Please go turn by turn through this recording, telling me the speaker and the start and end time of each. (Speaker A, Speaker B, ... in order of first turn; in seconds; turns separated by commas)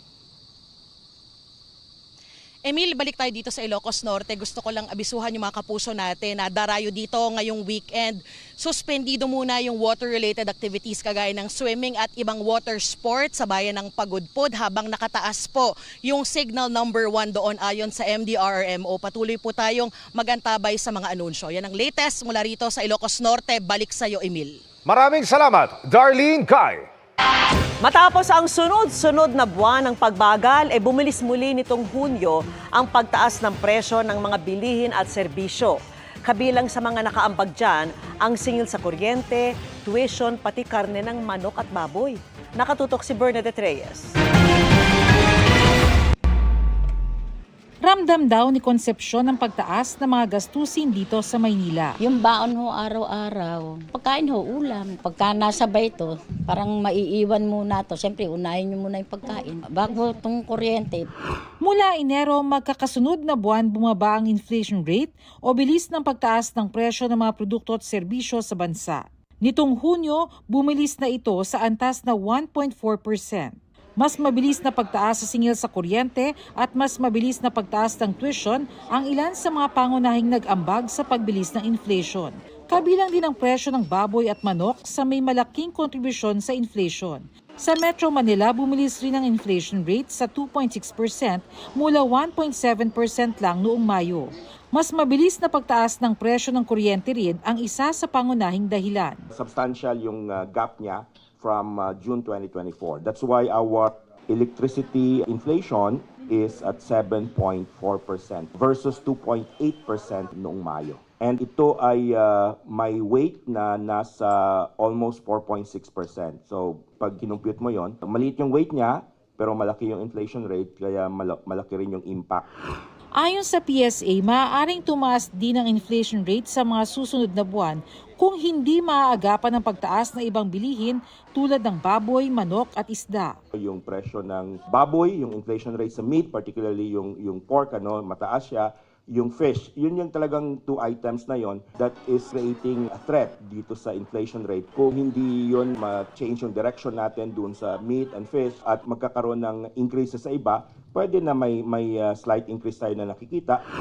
Speaker A: 2.6-24.6, Speaker B: 24.9-26.9, Speaker C: 27.8-44.1, Speaker D: 47.8-52.0, Speaker E: 52.0-61.1, Speaker D: 61.6-99.2, Speaker F: 99.5-122.4, Speaker D: 123.1-133.3, Speaker F: 133.6-153.6